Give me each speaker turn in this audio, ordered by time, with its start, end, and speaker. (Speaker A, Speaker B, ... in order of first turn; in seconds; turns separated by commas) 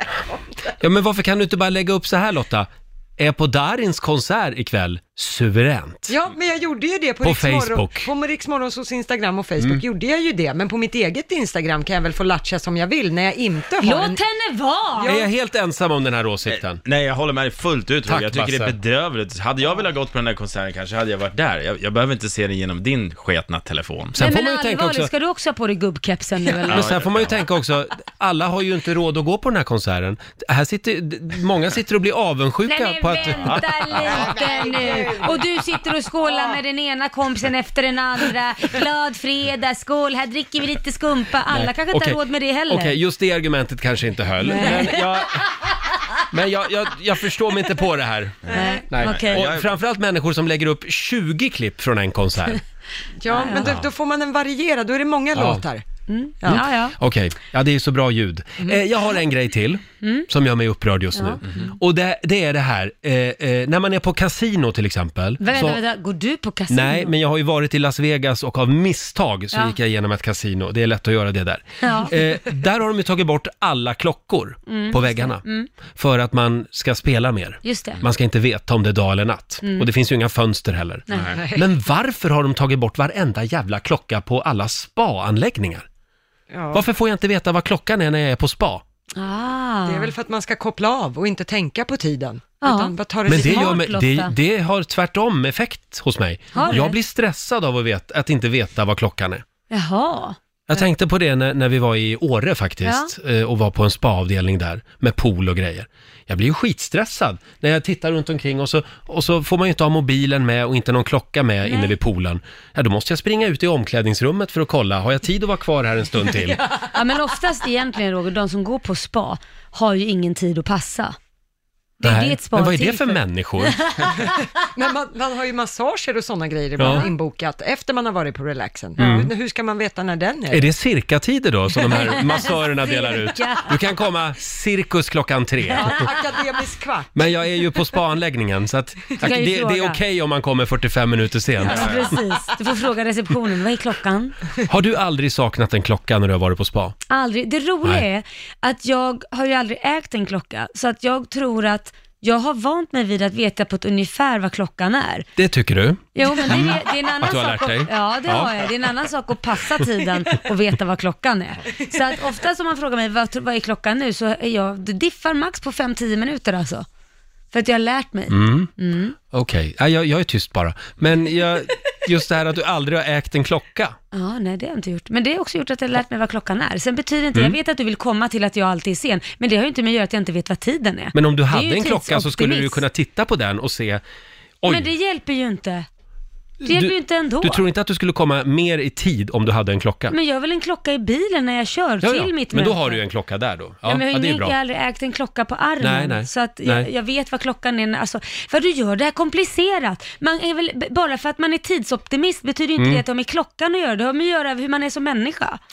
Speaker A: 0.8-6.1, Speaker B: 6.1-14.2, Speaker A: 7.2-8.1, Speaker C: 13.8-15.2, Speaker B: 14.9-15.3, Speaker A: 15.0-16.8, Speaker D: 16.4-24.2, Speaker A: 18.1-18.8, Speaker A: 24.1-25.1, Speaker C: 24.2-26.9, Speaker D: 26.7-27.4, Speaker A: 26.7-33.6, Speaker C: 32.6-43.0, Speaker A: 41.5-45.5, Speaker C: 44.4-45.2, Speaker A: 46.3-52.6, Speaker D: 48.5-49.7, Speaker C: 48.5-49.4, Speaker B: 53.2-55.8, Speaker C: 53.3-53.7, Speaker A: 53.5-53.8, Speaker A: 55.3-55.6, Speaker C: 56.1-56.9, Speaker A: 56.5-65.8, Speaker C: 60.0-60.3, Speaker C: 61.1-61.7, Speaker C: 65.4-67.1, Speaker A: 66.7-75.4, Speaker C: 71.8-72.2, Speaker C: 74.7-75.7, Speaker A: 75.9-85.8, Speaker C: 77.6-78.0, Speaker C: 79.6-79.9, Speaker C: 81.1-81.4, Speaker B: 81.3-81.6, Speaker B: 86.5-86.8, Speaker A: 86.7-88.8, Speaker C: 89.2-90.1, Speaker B: 89.9-93.7, Speaker C: 92.6-94.3, Speaker A: 93.2-99.4, Speaker C: 96.5-97.0, Speaker C: 99.7-100.8, Speaker A: 100.7-116.6, Speaker C: 102.8-103.1, Speaker C: 111.6-111.9, Speaker B: 116.3-116.8, Speaker C: 116.9-121.2, Speaker C: 122.0-124.4, Speaker A: 122.0-123.8, Speaker B: 124.2-130.7, Speaker A: 126.8-127.1, Speaker A: 129.0-129.3, Speaker A: 130.5-136.1, Speaker C: 131.8-133.9, Speaker B: 135.7-137.9, Speaker A: 137.1-142.2, Speaker C: 139.2-140.0, Speaker C: 141.6-144.4, Speaker D: 141.7-142.1, Speaker A: 144.7-146.9, Speaker C: 147.1-155.3, Speaker A: 155.4-158.7, Speaker C: 156.1-166.8, Speaker C: 167.5-169.2, Speaker A: 168.3-168.7, Speaker A: 169.3-173.9, Speaker C: 174.1-182.8, Speaker A: 181.1-184.0, Speaker A: 184.6-184.9, Speaker C: 184.7-185.8, Speaker A: 186.6-190.2, Speaker C: 186.6-187.6, Speaker C: 190.1-193.0, Speaker A: 192.0-194.6, Speaker C: 193.8-205.6, Speaker A: 195.8-196.9, Speaker A: 202.8-203.0